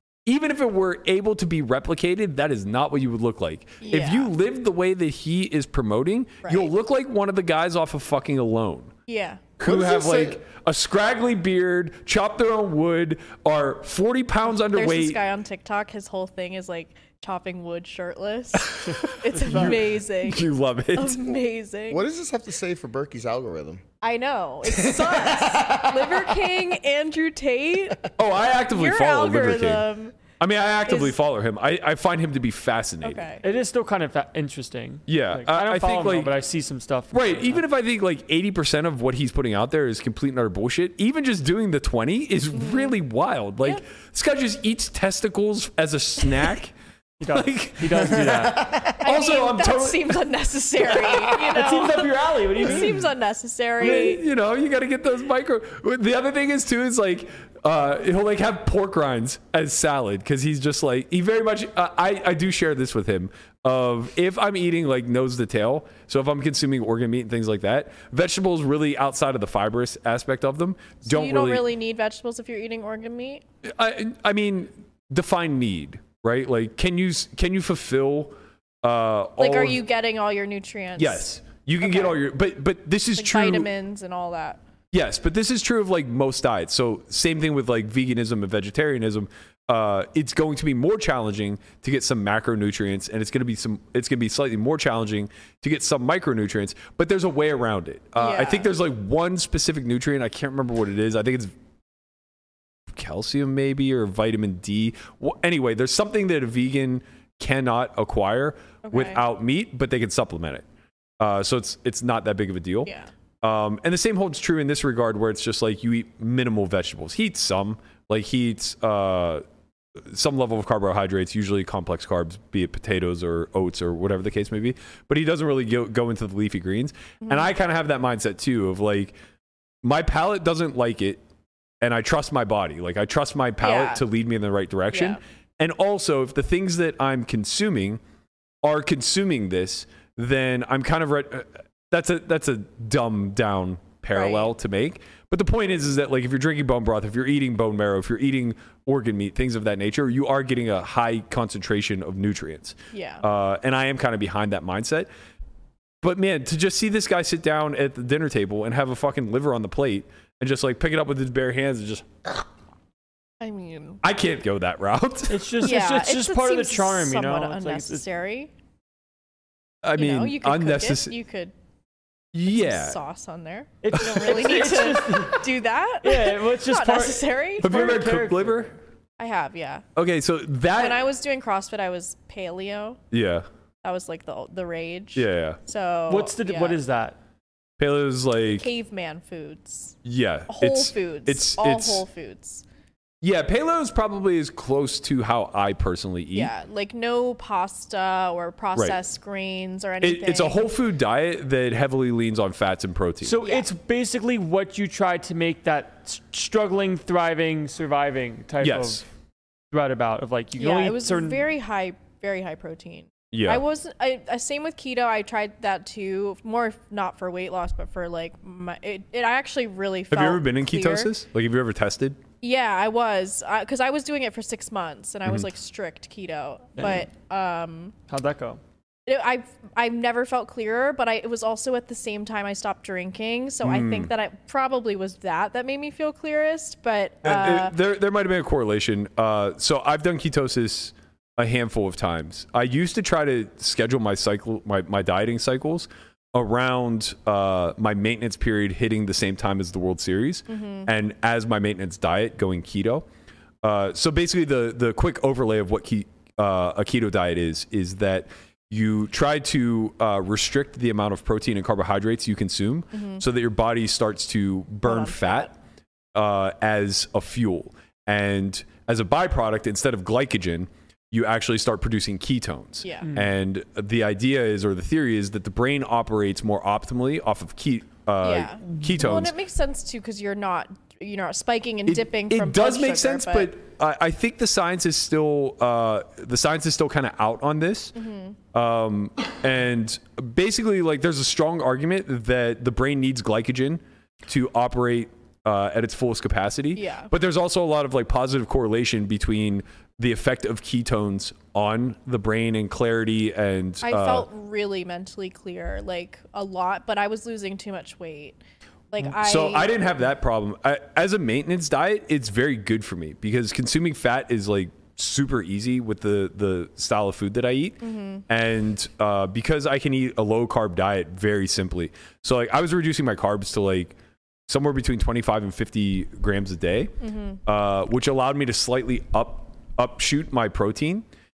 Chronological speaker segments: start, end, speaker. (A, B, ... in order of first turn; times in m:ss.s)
0:00.2-0:08.9 A
0:03.8-0:04.3 B
0:06.4-0:06.7 B
0:09.1-0:09.4 B
0:09.6-0:15.2 A
0:09.6-0:10.4 C
0:14.5-0:22.0 B
0:18.6-0:21.3 A
0:21.9-0:23.8 C
0:24.0-0:28.1 B
0:24.7-0:26.4 C
0:28.2-0:29.9 A
0:28.7-0:30.1 B
0:30.4-0:33.2 A
0:30.9-0:31.2 B
0:33.0-0:33.4 B
0:33.4-0:37.6 D
0:35.1-0:36.3 A
0:37.1-0:46.7 A
0:42.5-0:42.9 B
0:47.2-0:48.7 D
0:47.3-0:50.2 A
0:48.1-0:49.0 C
0:49.0-0:54.2 B
0:51.5-0:53.0 D
0:52.6-0:52.9 A
0:53.8-1:11.7 A
1:11.0-1:13.4 B
1:13.6-1:19.8 A
1:19.4-1:22.2 B
1:21.0-1:23.7 A
1:23.2-1:24.6 B
1:24.9-1:41.5 A
1:38.2-1:38.7 B
1:42.9-1:50.6 A
1:48.8-1:49.2 B
1:51.2-1:59.4 A
1:52.8-1:53.1 B
2:00.0-2:09.1 A
2:07.2-2:07.5 B
2:09.8-2:11.2 A
2:11.8-2:18.0 A
2:13.6-2:14.0 B
2:14.9-2:15.2 B
2:18.6-2:35.1 A
2:24.1-2:24.5 B
2:32.9-2:33.2 B
2:36.0-2:42.4 A
2:43.4-2:44.0 B
2:44.0-2:45.5 A
2:45.3-2:48.0 D
2:45.6-2:48.5 B
2:49.8-2:51.2 A
2:50.0-2:51.5 B
2:52.3-2:53.0 A
2:52.5-2:58.0 B
2:53.8-2:55.5 D
2:53.9-2:54.5 A
2:56.0-2:58.7 D
2:57.6-2:58.7 A
2:59.2-2:59.8 B
3:00.0-3:01.1 A
3:00.7-3:03.0 B
3:03.1-3:03.5 A
3:03.8-3:06.8 B
3:05.1-3:05.6 A
3:06.1-3:07.2 D
3:07.8-3:08.7 A
3:08.6-3:10.0 B
3:10.0-3:12.0 A
3:10.5-3:12.6 B
3:13.2-3:16.5 A
3:16.3-3:20.7 B
3:18.7-3:19.0 A
3:20.0-3:23.4 A
3:23.2-3:29.0 D
3:23.4-3:23.7 B
3:28.6-3:29.0 A
3:29.7-3:31.4 D
3:30.6-3:41.1 B
3:33.3-3:33.6 A
3:40.1-3:42.2 A
3:42.4-3:47.9 B
3:46.8-3:47.0 D
3:48.1-3:48.6 D
3:49.1-3:57.7 B
3:53.6-3:54.1 A
3:57.2-4:13.0 A
4:10.5-4:10.9 B
4:13.6-4:25.5 A
4:22.9-4:23.2 B
4:24.8-4:25.5 B
4:26.1-4:39.3 A
4:32.8-4:33.1 B
4:33.0-4:33.3 D
4:38.2-4:43.5 B
4:41.9-4:48.0 A
4:47.9-4:48.4 B
4:48.5-5:04.2 A
4:56.7-4:57.1 B
5:03.8-5:08.4 B
5:08.9-5:09.7 B
5:09.0-5:23.9 A
5:17.8-5:18.2 B
5:24.5-5:26.9 A
5:27.0-5:27.4 B
5:27.4-5:31.0 A